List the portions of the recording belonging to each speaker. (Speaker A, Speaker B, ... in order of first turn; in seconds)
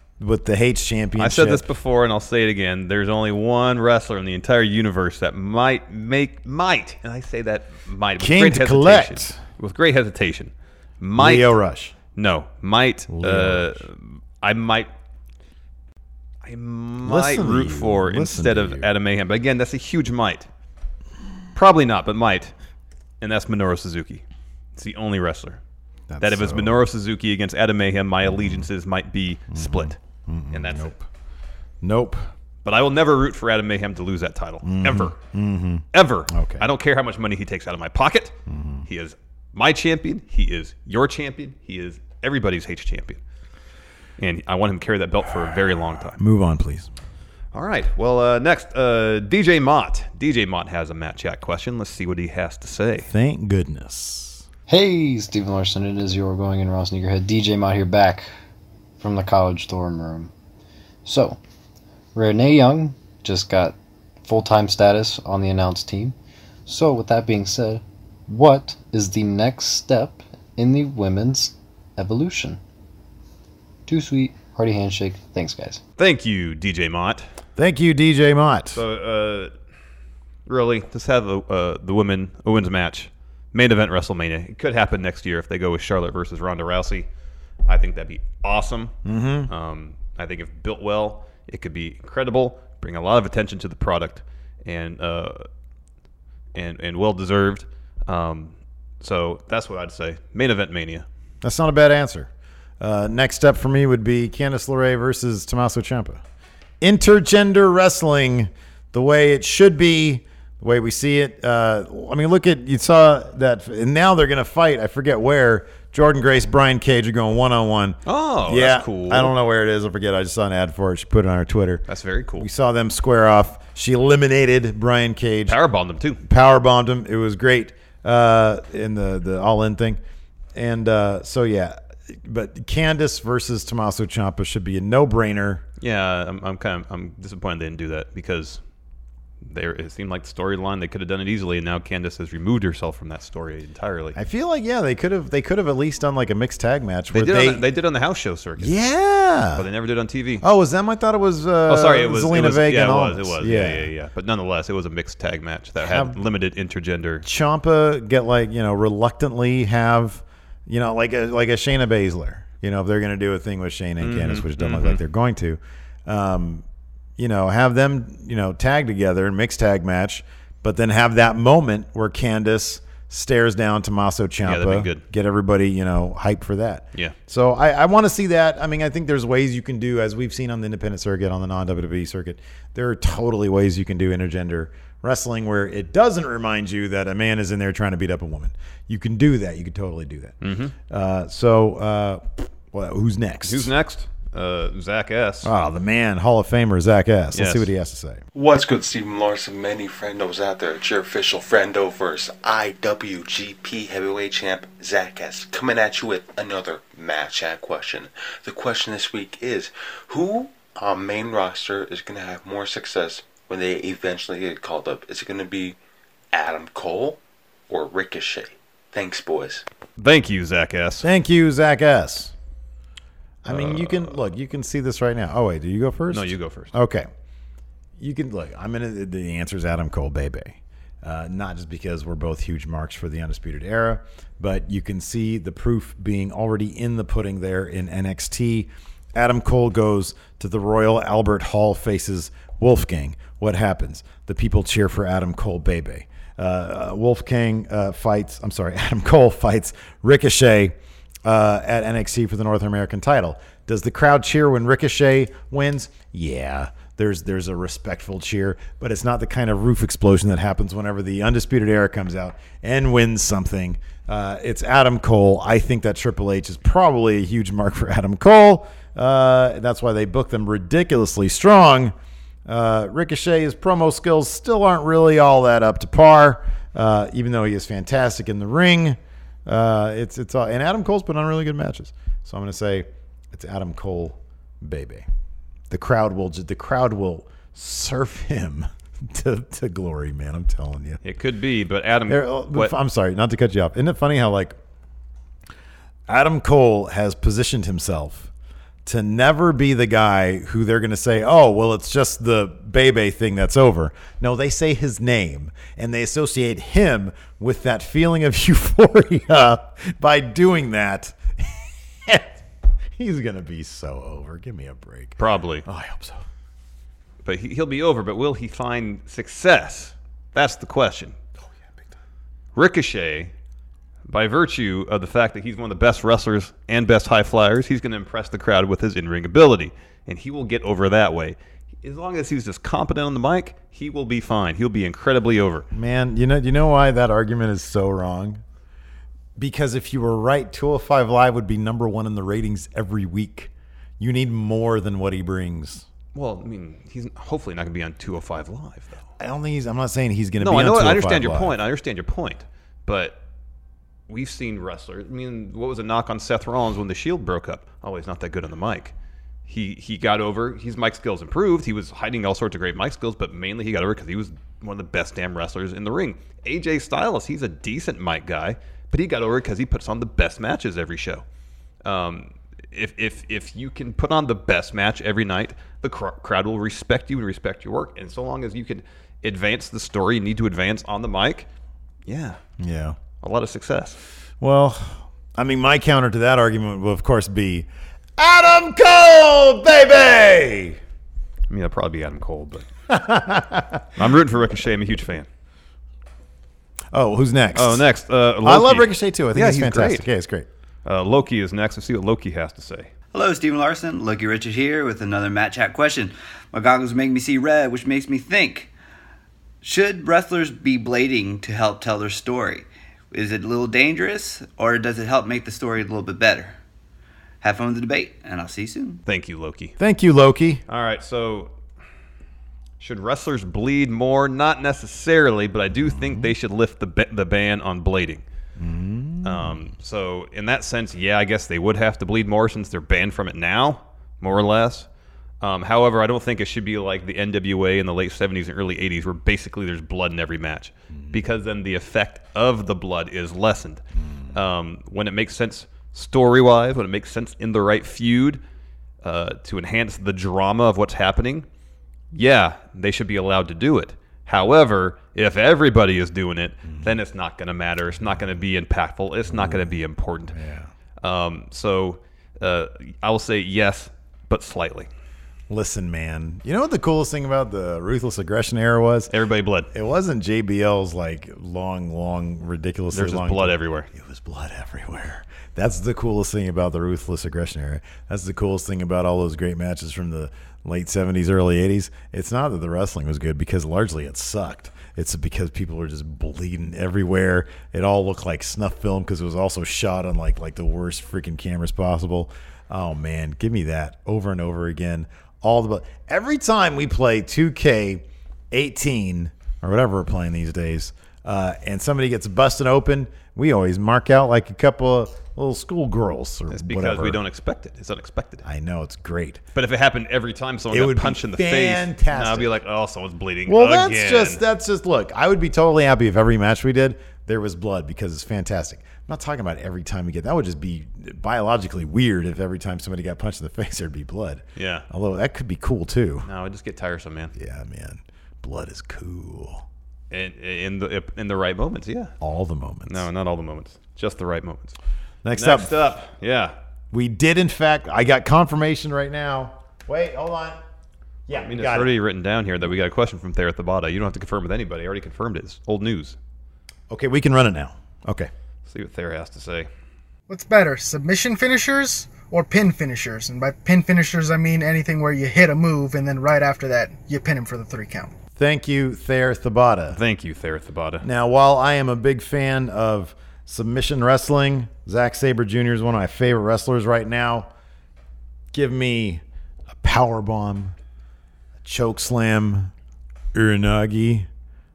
Speaker A: 0.2-1.7, 8.2-9.4, 11.2-11.9, 13.1-13.8, 17.0-18.9, 26.1-26.8, 28.2-28.7, 29.5-31.1, 31.8-32.3, 34.6-36.7, 38.5-38.9, 46.2-46.9, 53.1-54.5, 77.6-78.8, 89.0-89.5, 101.4-106.2, 106.8-121.8, 122.4-125.6, 126.2-130.0, 130.5-135.6, 144.2-147.6, 148.6-149.7, 150.4-153.9, 155.8-156.2, 157.2-166.7, 167.2-190.3, 190.9-193.7, 195.4-198.2, 221.0-222.3, 223.4-227.1, 228.0-271.9, 272.5-285.1, 285.7-291.0, 292.1-294.6, 296.1-298.3, 298.9-312.4, 313.0-316.2, 335.7-338.4, 339.4-345.9, 349.2-351.6, 382.6-383.0, 384.4-390.8, 392.9-393.9, 396.9-397.9, 398.4-400.5, 419.8-420.6, 425.8-426.3, 428.6-429.7, 440.9-441.2, 444.0-444.4, 456.6-456.9, 458.0-458.3, 459.3-460.7, 465.5-469.1, 469.7-507.2, 508.4-509.4, 510.7-512.5, 513.5-526.3, 527.4-529.7, 532.2-533.1, 535.2-535.8, 536.9-540.6, 541.3-541.9, 546.9-548.3, 558.4-560.0, 561.0-567.5, 568.5-569.2, 569.8-570.8, 571.6-572.7, 573.3-574.3
Speaker B: 1.2-11.5, 12.1-14.9, 16.4-20.5, 21.5-22.5, 23.2-24.2, 24.8-25.6, 26.2-30.0, 30.5-30.9, 32.6-35.2, 35.9-43.2, 44.2-46.2, 47.5-53.1, 76.0-77.3, 78.7-79.5, 80.5-87.1, 87.7-89.0, 89.5-95.5, 96.5-101.1, 118.1-119.3, 121.9-122.5, 125.5-126.2, 135.8-138.6, 139.4-144.2, 147.1-148.8, 149.6-150.4, 151.7-157.2, 164.0-165.0, 174.4-175.1, 190.4-190.8, 193.4-195.5, 197.3-197.7, 220.0-221.1, 223.5-224.2, 226.1-226.7, 291.0-292.7, 315.2-315.6, 317.2-321.2, 322.6-323.3, 324.1-335.7, 346.1-349.1, 350.4-353.2, 354.1-358.9, 359.5-371.2, 371.8-381.5, 382.1-382.4, 383.2-384.0, 391.5-392.7, 394.0-395.3, 397.6-400.1, 400.9-402.9, 419.1-419.8, 420.7-421.5, 422.8-428.2, 429.2-434.9, 435.4-443.8, 444.3-448.4, 449.0-451.5, 452.1-460.4, 461.0-464.9, 469.1-469.7, 472.9-473.9, 506.5-508.4, 509.6-514.4, 524.6-524.9, 526.2-527.3, 530.1-532.1, 532.9-534.8, 535.4-536.5, 541.3-546.2, 548.7-549.7, 559.9-561.1
Speaker C: 54.7-58.3, 59.0-60.3, 61.0-61.4, 62.1-66.2, 66.7-72.6, 73.9-75.8
Speaker D: 198.3-215.8, 216.3-219.7
Speaker E: 403.1-408.7, 409.6-416.6, 417.4-419.0
Speaker F: 550.3-558.1